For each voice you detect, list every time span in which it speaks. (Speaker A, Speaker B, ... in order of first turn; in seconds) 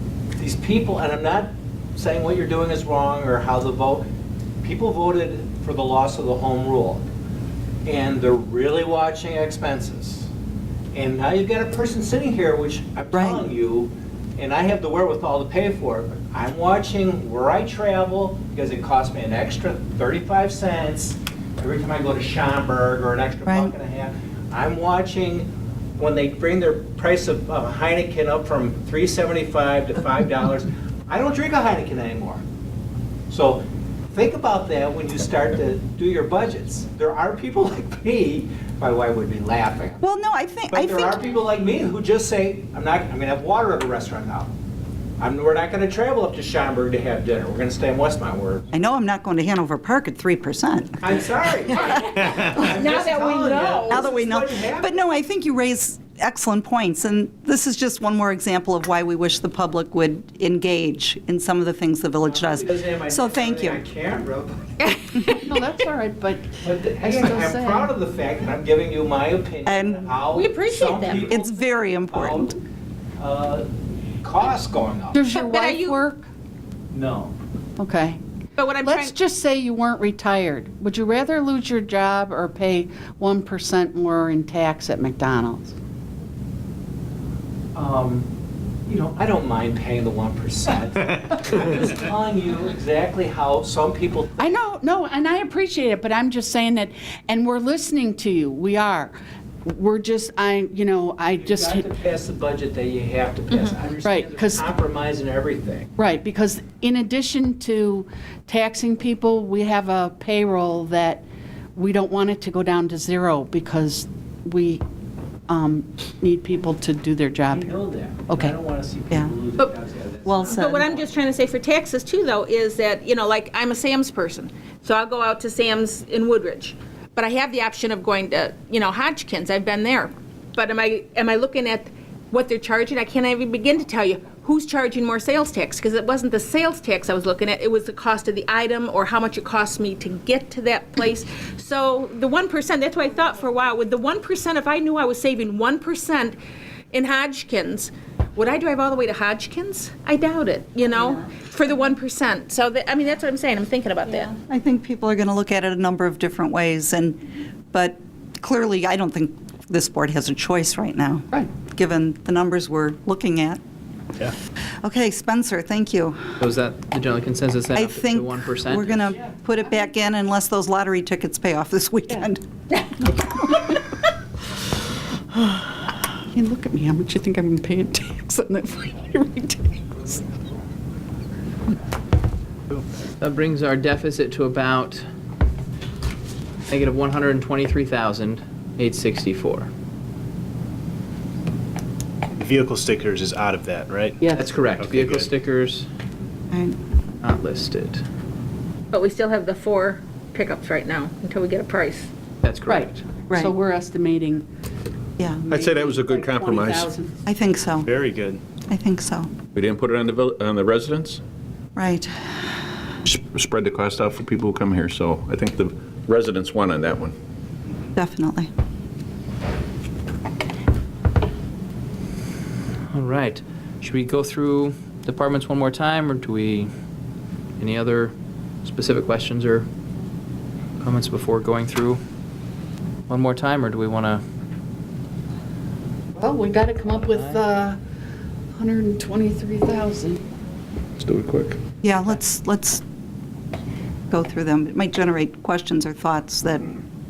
Speaker A: 0.4-4.1, 4.6-7.1, 7.9-10.3, 10.9-32.4, 33.3-40.0, 40.7-44.5, 45.2-48.7, 51.0-55.0, 62.3-64.7, 66.6-72.6, 73.2-73.7, 74.2-75.2, 76.9-77.3, 87.8-88.3, 88.9-94.6, 101.4-105.9, 117.5-121.1
Speaker B: 13.1-13.4, 23.5-23.7, 40.0-41.2, 48.7-51.9, 53.9-63.8, 69.7-70.1, 71.1-72.5, 120.2-120.9, 154.3-157.2, 157.7-163.6, 164.8-166.3, 167.7-172.4, 196.5-196.8, 205.2-205.5, 207.2-207.9, 208.7-209.3, 211.8-212.1, 218.0-218.5, 241.8-242.8, 244.1-246.8
Speaker C: 51.7-54.1, 64.8-65.6, 70.3-71.3, 75.3-76.0, 78.6-79.2, 120.4-146.4, 146.9-154.3, 198.9-202.1
Speaker D: 65.3-67.9, 75.1-76.3, 77.8-78.2, 78.8-85.8, 94.4-99.2, 99.7-101.9, 104.0-104.7, 106.0-111.2, 111.8-114.8, 115.5-117.8, 118.3-118.5, 176.3-180.2, 194.2-194.5, 202.7-204.5, 205.5-207.1, 236.2-237.8, 238.6-240.2
Speaker E: 166.4-169.2, 183.2-185.0, 186.7-189.7, 194.3-195.9, 197.2-198.0, 202.4-203.0, 222.9-226.7, 227.6-228.1, 228.7-229.7, 230.8-232.0, 233.1-234.2
Speaker F: 192.4-195.3, 207.9-208.4
Speaker G: 205.5-206.9, 209.6-211.2, 213.1-217.1, 241.0-241.6